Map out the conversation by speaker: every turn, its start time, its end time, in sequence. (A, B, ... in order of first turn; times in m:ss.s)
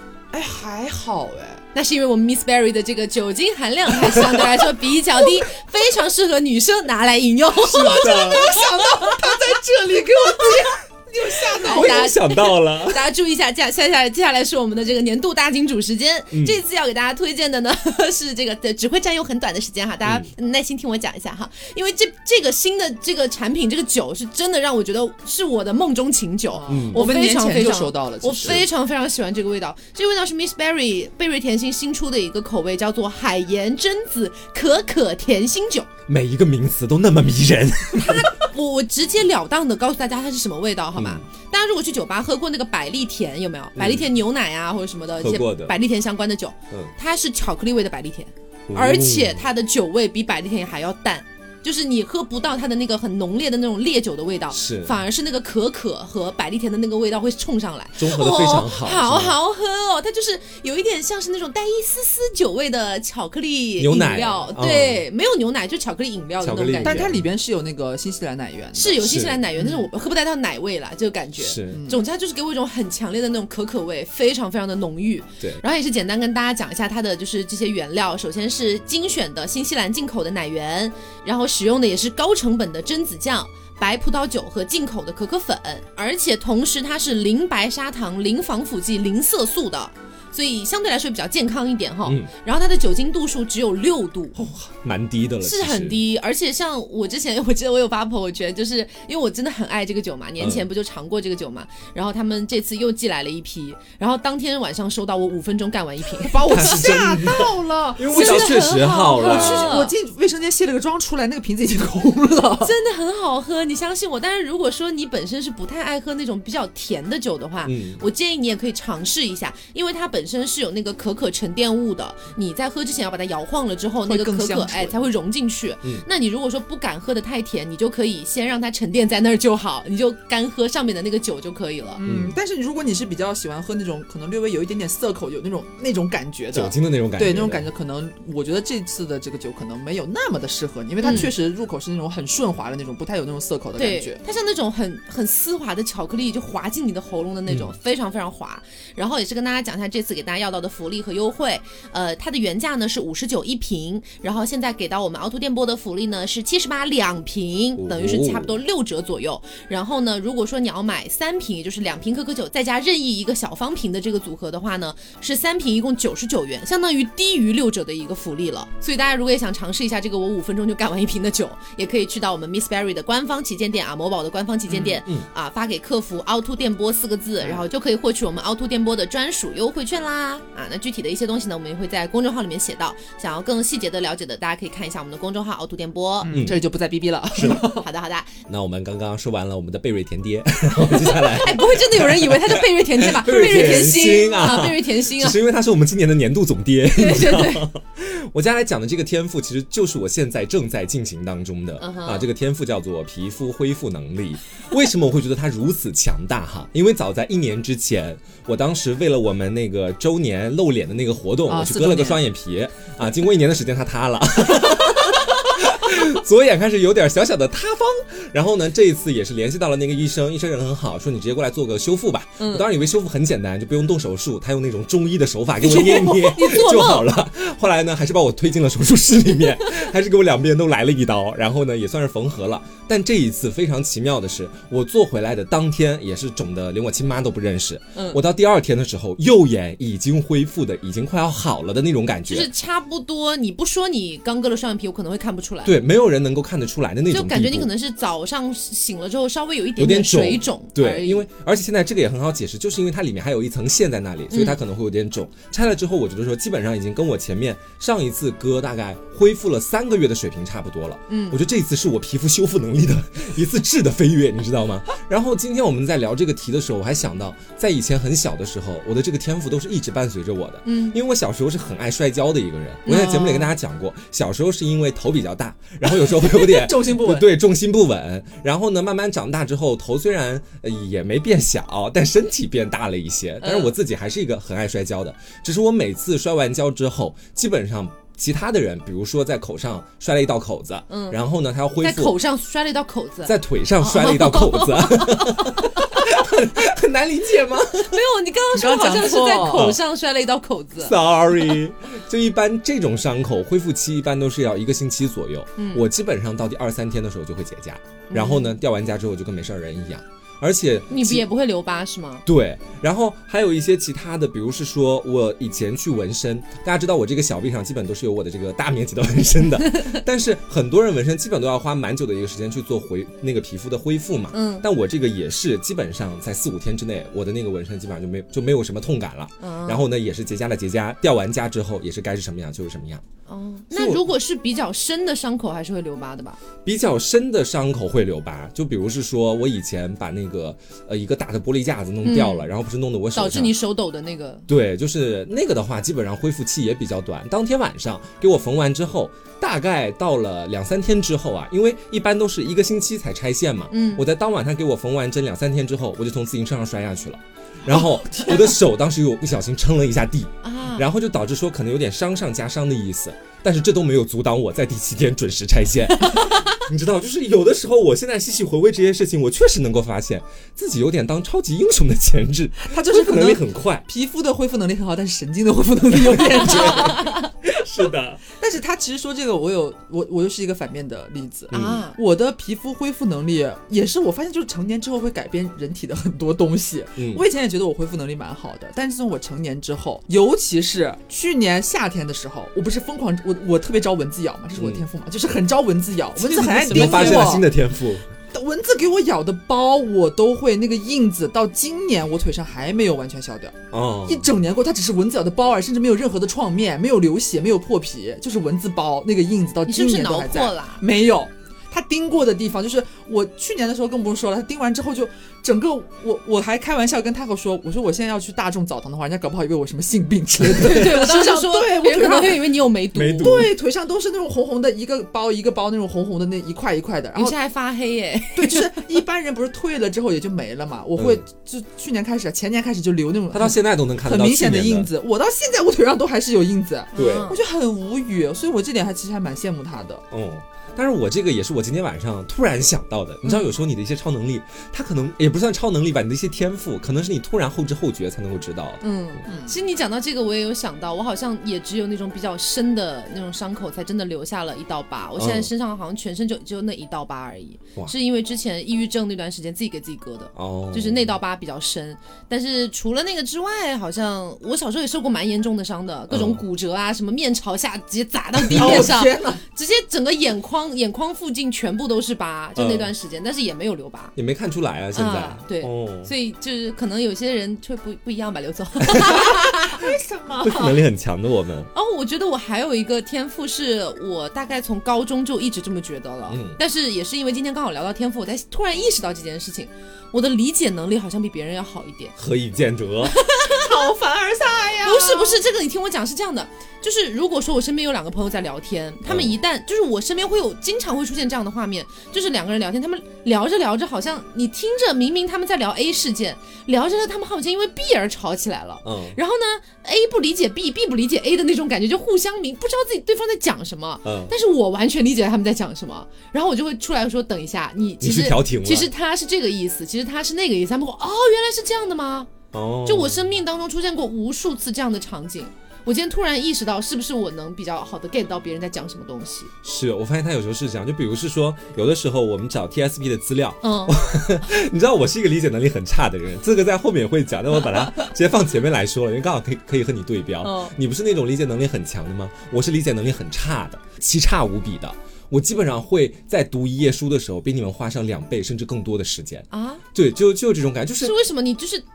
0:00.3-0:01.6 A
0:01.7-0:09.3 B
0:07.6-0:08.5 C
0:07.7-0:12.1 A
0:11.6-0:13.0 C
0:11.6-0:35.9 B
0:16.3-0:16.6 C
0:26.5-0:28.6 A
0:26.7-0:27.0 C
0:36.1-0:38.3 C
0:37.9-1:07.1 B
0:41.0-0:41.2 C
0:43.8-0:44.1 C
0:45.2-0:45.8 C
0:48.7-0:49.4 C
0:54.5-0:55.0 C
0:58.0-0:59.4 C
1:03.8-1:05.0 C
1:06.4-1:07.2 C
1:06.8-1:09.0 A
1:08.7-1:34.4 B
1:09.0-1:09.4 C
1:09.6-1:09.9 A
1:11.4-1:11.8 C
1:11.7-1:12.0 A
1:32.0-1:32.3 C
1:34.4-1:36.0 C
1:35.4-1:46.7 B
1:40.4-1:40.7 C
1:46.2-1:52.7 A
1:46.4-1:49.8 C
1:48.1-1:49.9 B
1:52.6-2:12.0 B
1:57.6-1:58.0 C
2:04.0-2:05.0 A
2:12.0-2:24.2 A
2:12.0-2:12.4 C
2:16.5-2:17.6 C
2:21.0-2:21.3 B
2:23.8-3:06.4 B
2:27.5-2:27.7 C
2:37.8-2:38.6 C
2:54.7-2:55.0 A
2:57.4-2:57.6 A
3:06.2-3:07.8 A
3:06.3-3:06.6 C
3:07.3-3:07.6 C
3:07.4-3:08.3 B
3:08.5-4:02.5 C
3:11.0-3:15.4 B
3:16.9-3:17.6 B
3:21.8-3:22.3 B
3:31.5-3:32.2 A
3:42.4-3:42.7 B
3:45.6-3:47.1 B
3:57.9-3:58.2 B
4:02.3-4:05.7 B
4:05.6-4:07.7 C
4:07.1-4:11.2 B
4:09.8-4:52.2 C
4:14.3-4:14.6 B
4:21.1-4:21.4 B
4:30.6-4:31.0 B
4:32.8-4:33.5 B
4:35.8-4:37.3 A
4:43.4-4:43.7 B
4:50.9-4:51.2 B
4:51.8-4:55.9 B
4:53.2-4:58.0 C
4:57.8-5:01.0 B
4:58.5-4:59.7 A
4:59.5-4:59.8 C
5:00.8-5:11.2 C
5:05.6-5:05.8 B
5:08.1-5:08.5 B
5:10.9-5:12.2 B
5:12.2-5:33.0 C
5:24.3-5:24.6 B
5:29.4-5:29.8 B
5:33.3-5:36.4 B
5:33.7-5:34.1 C
5:36.6-5:43.6 C
5:42.0-5:42.5 B
5:43.1-5:44.4 B
5:44.5-6:13.8 C
5:53.7-5:54.0 B
5:57.7-5:58.4 A
6:00.4-6:00.8 B
6:12.6-6:17.2 A
6:16.0-6:18.2 C
6:16.6-6:17.2 B
6:18.4-6:37.4 A
6:21.5-6:21.8 C
6:21.5-6:22.0 B
6:27.0-6:27.2 C
6:34.6-6:34.8 C
6:36.2-6:37.4 B
6:36.7-6:38.0 C
6:38.3-7:02.5 A
6:43.7-6:44.3 C
6:49.7-6:50.8 B
7:00.5-7:03.4 B
7:02.9-7:03.5 C
7:03.2-7:07.4 A
7:07.2-7:08.8 B
7:08.3-7:20.0 A
7:11.0-7:11.2 C
7:13.3-7:14.9 C
7:16.9-7:17.4 B
7:17.0-7:17.3 C
7:20.1-7:28.8 C
7:28.8-7:54.1 B
7:29.3-7:29.6 A
7:35.2-7:35.5 C
7:40.3-7:41.1 C
7:46.1-7:46.4 C
7:48.5-7:48.9 C
7:48.5-7:49.4 A
7:52.6-7:52.9 C
7:54.2-7:56.1 C
7:54.9-7:59.8 B
7:58.9-7:59.2 C
7:59.2-8:00.8 A
8:00.4-8:01.7 C
8:01.7-8:12.1 B
8:06.3-8:06.6 C
8:12.2-8:13.1 C
8:13.1-8:13.6 B
8:13.5-8:15.4 A
8:14.8-8:42.3 B
8:19.0-8:19.3 C
8:28.8-8:29.2 C
8:34.0-8:34.3 C
8:38.0-8:38.9 C
8:42.5-8:43.4 C
8:42.8-8:49.5 B
8:49.6-9:11.1 C
8:53.6-8:54.0 B
9:00.4-9:00.7 B
9:09.5-9:09.8 B
9:11.0-9:11.8 B